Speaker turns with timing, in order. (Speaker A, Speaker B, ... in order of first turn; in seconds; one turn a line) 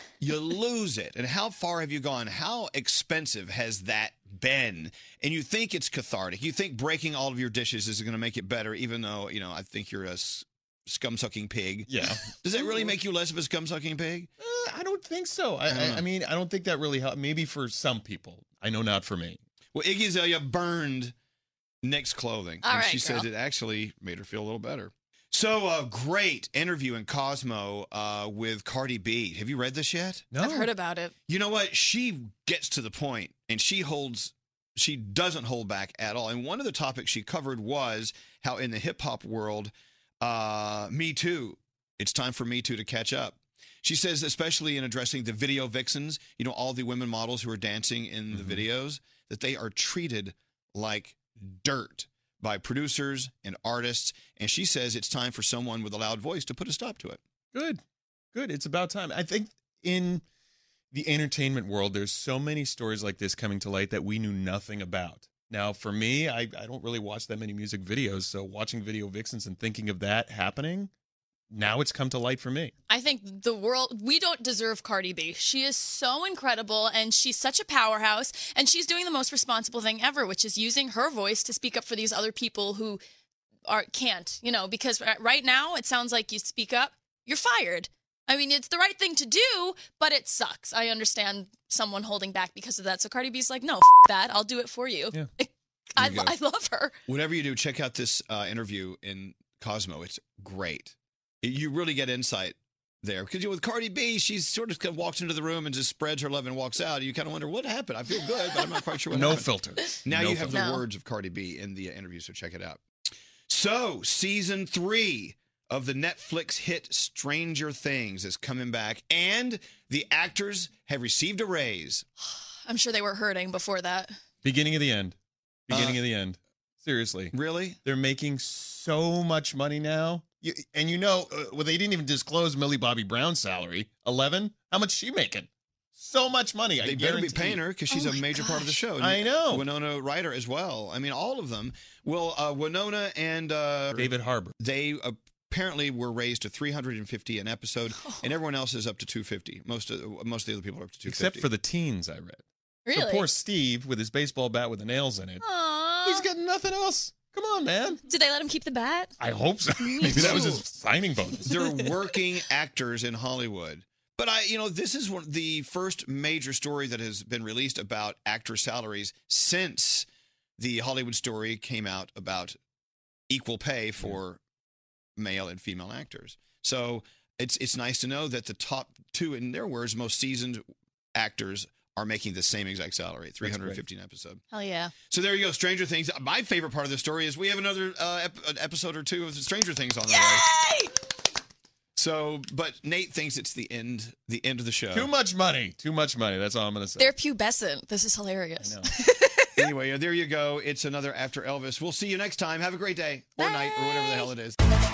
Speaker A: 0.2-14.3
Speaker B: 11.9-12.9
Speaker B: 14.4-19.4
Speaker A: 15.7-16.0
Speaker A: 19.7-21.1
Speaker A: 21.8-30.3
Speaker C: 22.6-23.3
Speaker B: 30.3-30.7
Speaker C: 30.4-31.1
Speaker A: 31.3-57.2
Speaker B: 48.3-48.6
Speaker B: 57.5-57.8
Speaker B: 58.3-60.2
Speaker B: 60.9-70.9
Speaker B: 71.5-72.7
Speaker C: 72.9-83.0
Speaker C: 83.7-96.9
Speaker A: 96.0-96.3
Speaker A: 97.0-109.5
Speaker B: 109.1-110.7
Speaker A: 110.0-112.8
Speaker C: 110.5-110.8
Speaker A: 113.5-122.0
Speaker C: 122.3-124.1
Speaker B: 124.4-125.2
Speaker B: 125.7-137.6
Speaker A: 125.7-126.0
Speaker A: 127.3-127.8
Speaker A: 136.8-151.5
Speaker C: 137.9-138.8
Speaker B: 139.0-139.7
Speaker B: 143.9-144.5
Speaker C: 148.0-148.3
Speaker B: 151.1-155.4
Speaker C: 152.8-153.3
Speaker C: 155.4-156.3
Speaker B: 156.0-158.0
Speaker C: 158.0-159.1
Speaker B: 159.2-161.8
Speaker C: 159.8-160.6
Speaker A: 160.1-160.5
Speaker A: 161.4-172.6
Speaker A: 173.3-174.4
Speaker A: 175.2-180.6
Speaker A: 181.1-184.4
Speaker B: 183.4-183.8
Speaker C: 184.5-184.9
Speaker A: 185.0-190.5
Speaker C: 190.1-190.9
Speaker A: 191.9-195.1
Speaker B: 194.9-197.1
Speaker C: 197.0-199.7
Speaker B: 198.6-198.9
Speaker A: 199.6-204.6
Speaker C: 203.4-204.3